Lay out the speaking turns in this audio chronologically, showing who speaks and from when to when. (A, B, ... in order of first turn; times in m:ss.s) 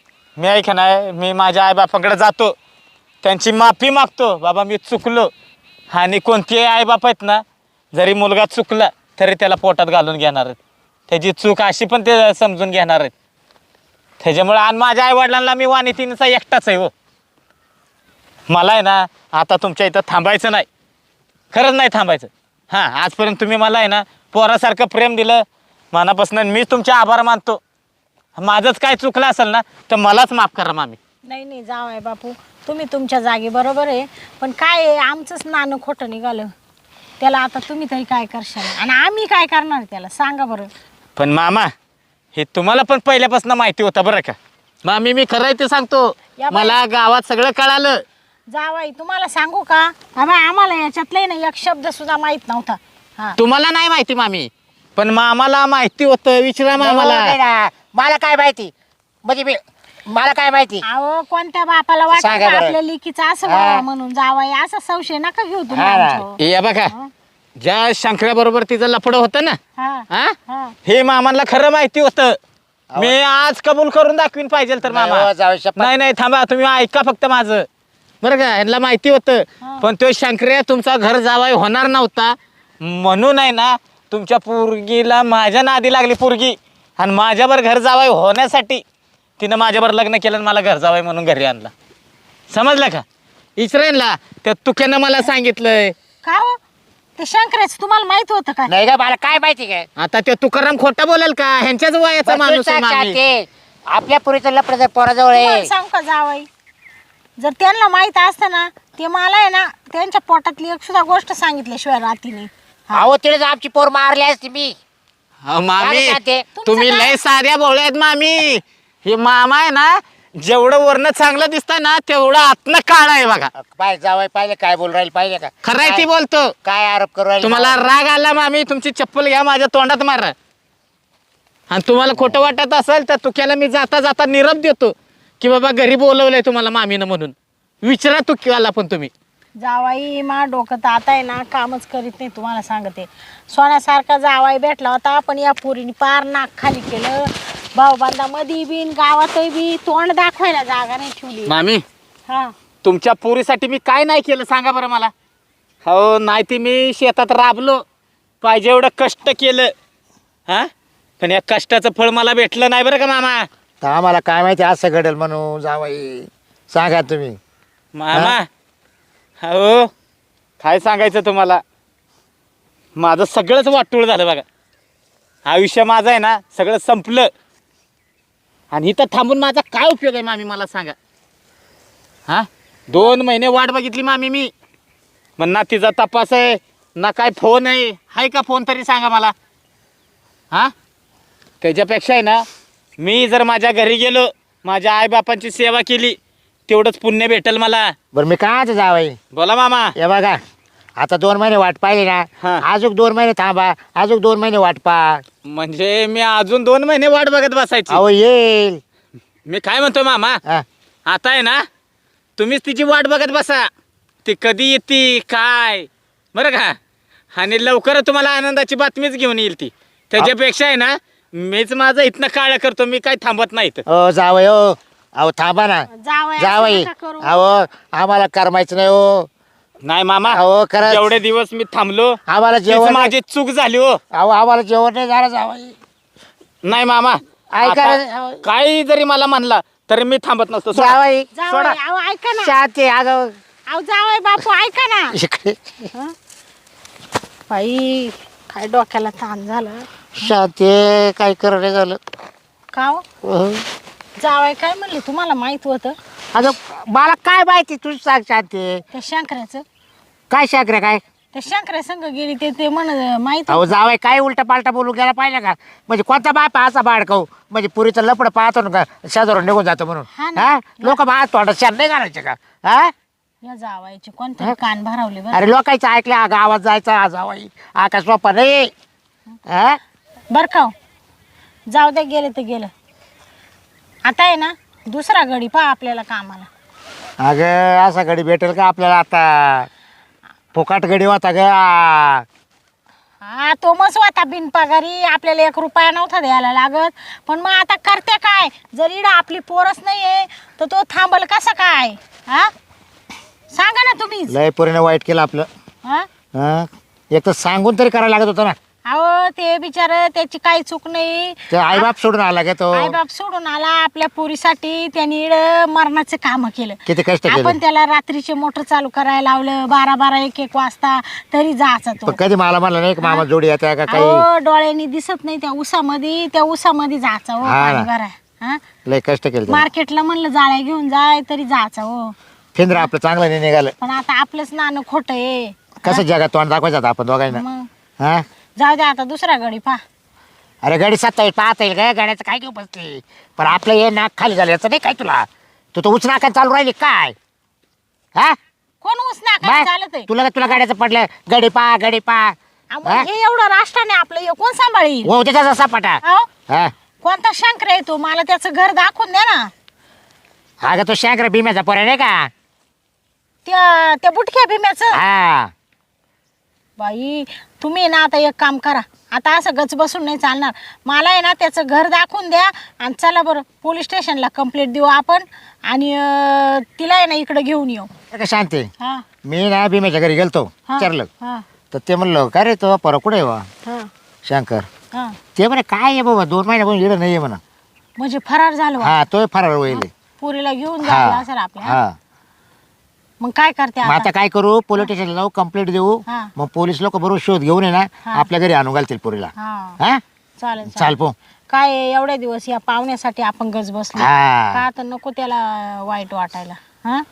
0:00.4-0:02.5 A
0:03.2-0:05.3 A
0:05.9-0:07.4 A
0:07.9-0:10.6 A
0:11.1-0:13.1 A
0:14.2-0:16.9 A
0:18.5-0:20.6 A
0:21.5-0:27.6 A
0:28.4-0:31.0 A
0:31.2-0:36.5 B
0:37.2-0:40.7 B
0:41.2-0:41.7 A
0:42.3-0:48.0 A
0:46.4-0:46.8 B
0:48.5-0:53.4 B
0:53.4-0:57.4 A
0:56.8-0:58.7 C
0:59.2-1:00.8 C
1:00.8-1:06.4 B
1:02.1-1:02.8 C
1:03.4-1:03.8 C
1:05.7-1:06.2 C
1:06.4-1:06.9 A
1:07.6-1:09.6 A
1:09.8-1:10.7 B
1:10.1-1:12.4 A
1:13.0-1:17.6 A
1:14.9-1:15.9 C
1:18.2-1:28.8 A
1:19.6-1:19.9 B
1:29.4-1:31.7 A
1:32.5-1:33.0 A
1:33.6-1:35.9 A
1:36.2-1:36.6 B
1:37.2-1:38.7 B
1:38.7-1:39.9 C
1:40.0-1:43.2 A
1:42.2-1:45.7 C
1:45.3-1:46.5 B
1:47.4-1:53.1 B
1:52.9-1:54.7 C
1:55.4-2:03.5 A
1:55.8-1:56.6 C
1:56.6-1:57.2 B
2:03.6-2:06.0 C
2:05.6-2:06.5 A
2:06.6-2:07.8 C
2:07.4-2:10.3 A
2:11.7-2:19.1 A
2:12.1-2:12.4 C
2:19.6-2:31.5 B
2:31.4-2:31.8 A
2:32.3-2:32.5 B
2:32.8-2:35.1 A
2:35.8-2:37.8 A
2:38.4-2:39.7 A
2:41.2-2:43.5 A
2:43.8-2:47.4 C
2:48.0-2:48.5 A
2:49.4-2:49.9 A
2:50.6-2:51.6 A
2:53.0-2:54.4 A
2:55.4-2:57.3 A
2:58.7-3:01.0 A
3:02.3-3:04.5 A
3:05.4-3:09.3 A
3:11.6-3:12.4 A
3:13.0-3:16.2 A
3:16.7-3:17.9 A
3:18.1-3:19.2 C
3:19.3-3:19.9 A
3:19.9-3:20.4 C
3:21.0-3:25.2 C
3:25.4-3:28.0 A
3:27.9-3:28.8 C
3:29.5-3:30.4 A
3:31.0-3:31.6 A
3:32.4-3:33.7 A
3:34.2-3:36.8 A
3:37.3-3:43.8 A
3:43.9-3:49.3 C
3:45.9-3:47.4 B
3:49.8-3:54.0 A
3:50.3-3:51.2 C
3:52.3-3:53.1 C
3:54.1-3:55.8 C
3:56.6-4:01.0 A
3:57.5-3:58.4 C
4:00.7-4:01.3 C
4:01.3-4:02.6 B
4:01.5-4:01.8 A
4:02.4-4:03.4 C
4:03.7-4:05.2 B
4:05.1-4:05.9 C
4:07.5-4:09.9 B
4:10.2-4:12.0 C
4:12.7-4:13.0 B
4:13.2-4:13.6 C
4:14.2-4:16.0 B
4:16.3-4:18.8 C
4:18.9-4:19.6 B
4:20.3-4:21.0 C
4:21.3-4:23.7 B
4:23.5-4:32.9 C
4:30.1-4:31.0 B
4:33.4-4:35.5 B
4:35.3-4:38.7 C
4:39.5-4:39.8 C
4:40.3-4:40.7 B
4:41.7-4:42.7 B
4:44.0-4:46.5 B
4:47.2-4:49.7 C
4:50.5-4:52.2 C
4:53.2-5:02.5 B
5:03.5-5:04.3 B
5:04.3-5:05.5 C
5:06.3-5:08.6 C
5:08.8-5:11.9 B
5:11.5-5:13.0 C
5:12.7-5:22.2 B
5:16.9-5:17.6 C
5:22.0-5:24.2 C
5:23.9-5:28.6 B
5:27.4-5:27.9 C
5:28.8-5:29.7 C
5:29.5-5:32.1 B
5:32.6-5:33.7 C
5:33.8-5:36.0 B
5:35.8-5:37.4 C
5:37.3-5:37.7 B
5:38.0-5:38.2 C
5:38.6-5:39.8 B
5:40.6-5:47.1 C
5:48.8-5:50.6 B
5:49.4-5:53.1 C
5:52.7-5:55.1 B
5:55.0-5:56.7 C
5:56.0-5:56.3 B
5:57.0-5:59.5 B
6:00.6-6:02.3 C
6:03.4-6:05.0 B
6:04.9-6:05.5 C
6:06.8-6:17.9 B
6:18.1-6:18.7 C
6:18.8-6:19.0 B
6:19.2-6:21.1 C
6:20.7-6:21.4 B
6:21.7-6:23.4 C
6:24.2-6:24.7 C
6:25.4-6:27.4 C
6:28.0-6:28.9 B
6:28.8-6:29.9 C
6:29.7-6:31.8 B
6:30.8-6:31.9 C
6:33.2-6:34.1 B
6:33.8-6:40.0 C
6:39.4-6:39.8 B
6:40.4-6:41.0 B
6:40.7-6:41.1 C
6:41.5-6:47.0 B
6:44.0-6:44.6 C